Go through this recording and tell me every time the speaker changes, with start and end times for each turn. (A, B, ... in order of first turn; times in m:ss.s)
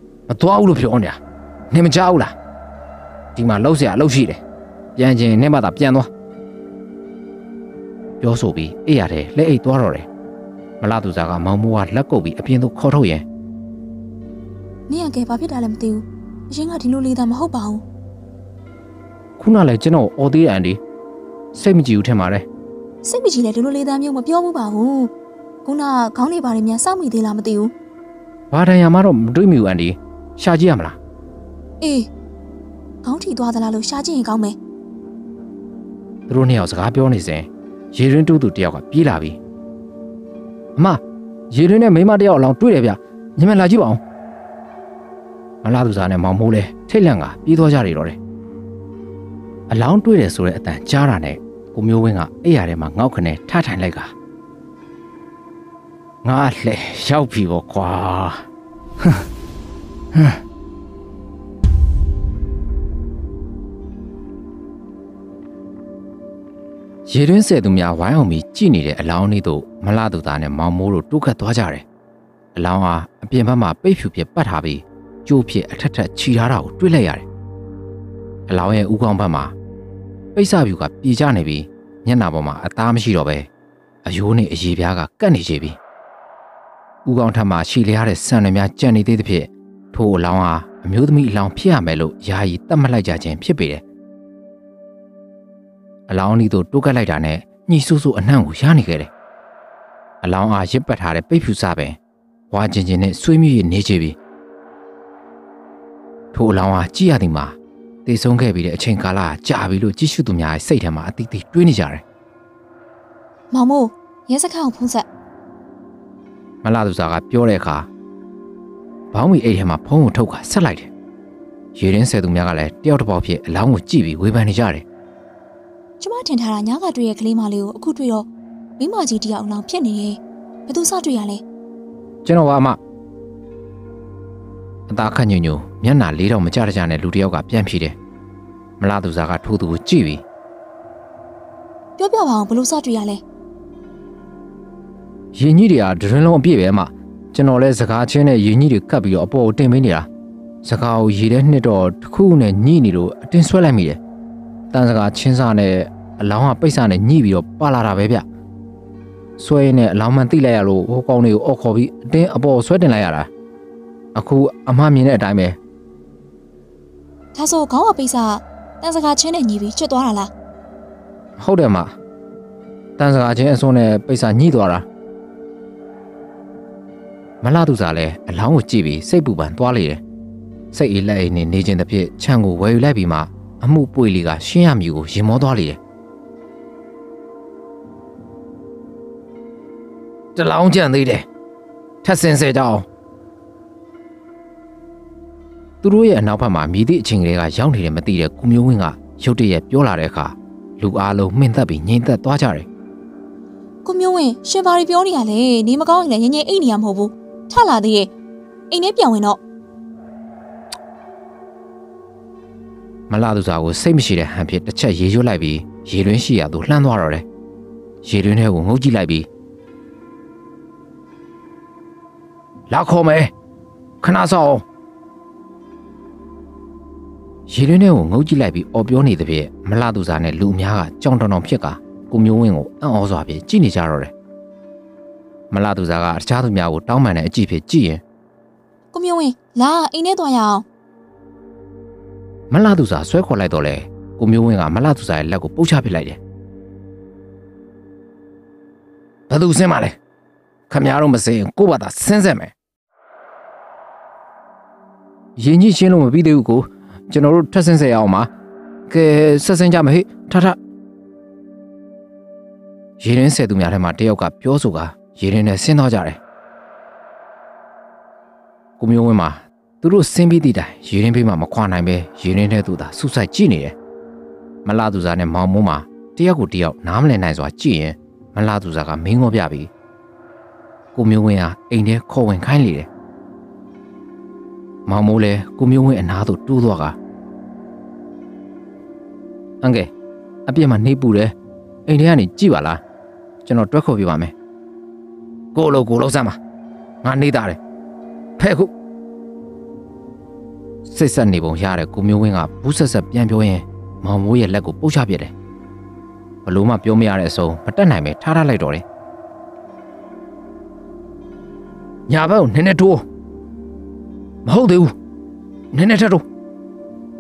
0:00.3-0:01.2 A
0:01.7-0:02.4 A
0:03.4-0:04.4 A
0:05.0-0:06.1 A
0:08.2-0:10.1 A
0:10.8-0:13.3 A
0:14.9-0:17.8 B
0:19.4-0:20.8 A
0:21.5-0:22.5 A
0:23.0-0:25.1 B
0:25.6-0:27.7 B
0:28.5-0:31.0 A
0:31.8-0:32.1 B
0:33.0-0:34.6 B
0:36.3-0:39.4 A
0:40.8-0:44.0 A
0:45.6-0:48.2 A
0:49.7-0:54.1 A
0:56.2-0:58.4 A
1:00.1-1:00.4 A
1:07.1-1:11.9 A
1:12.6-1:17.3 A
1:18.5-1:19.6 A
1:20.4-1:23.5 A
1:24.0-1:25.8 A
1:27.0-1:33.8 A
1:36.1-1:39.1 A
1:40.2-1:42.0 A
1:42.5-1:44.2 A
1:46.3-1:52.0 A
1:53.5-1:55.1 B
1:56.6-1:57.9 A
1:59.1-2:00.9 A
2:01.8-2:04.8 A
2:06.0-2:11.4 B
2:12.2-2:12.8 A
2:14.9-2:18.0 A
2:18.8-2:20.2 A
2:22.0-2:23.2 B
2:25.3-2:30.1 A
2:30.6-2:34.0 A
2:34.7-2:38.3 A
2:39.4-2:43.3 A
2:44.2-2:45.6 A
2:47.3-2:50.3 B
2:51.4-2:51.9 A
2:53.0-2:54.9 A
2:57.4-3:00.0 A
3:00.7-3:05.8 A
3:10.4-3:11.3 A
3:12.0-3:12.9 A
3:15.8-3:22.7 A
3:23.8-3:28.1 B
3:28.7-3:29.4 B
3:33.1-3:37.3 A
3:38.0-3:39.3 A
3:42.7-3:43.3 A
3:44.0-3:44.6 A
3:47.5-3:54.1 A
3:55.5-3:58.0 A
3:58.9-4:00.7 B
4:02.5-4:06.2 A
4:09.3-4:10.0 A
4:10.7-4:12.5 A
4:15.4-4:18.3 A
4:18.9-4:20.6 A
4:23.0-4:26.2 A
4:28.8-4:33.8 A
4:34.6-4:39.7 A
4:41.0-4:42.9 A
4:44.9-4:47.0 A
4:49.6-4:49.9 A
4:50.5-4:51.3 A
4:51.9-4:52.8 A
4:53.4-4:54.3 A
4:55.6-4:56.4 A
4:57.0-4:57.6 A
4:58.4-4:58.7 A
5:00.8-5:05.3 A
5:06.5-5:08.8 A
5:12.1-5:13.0 A
5:14.4-5:14.9 A
5:15.7-5:16.2 A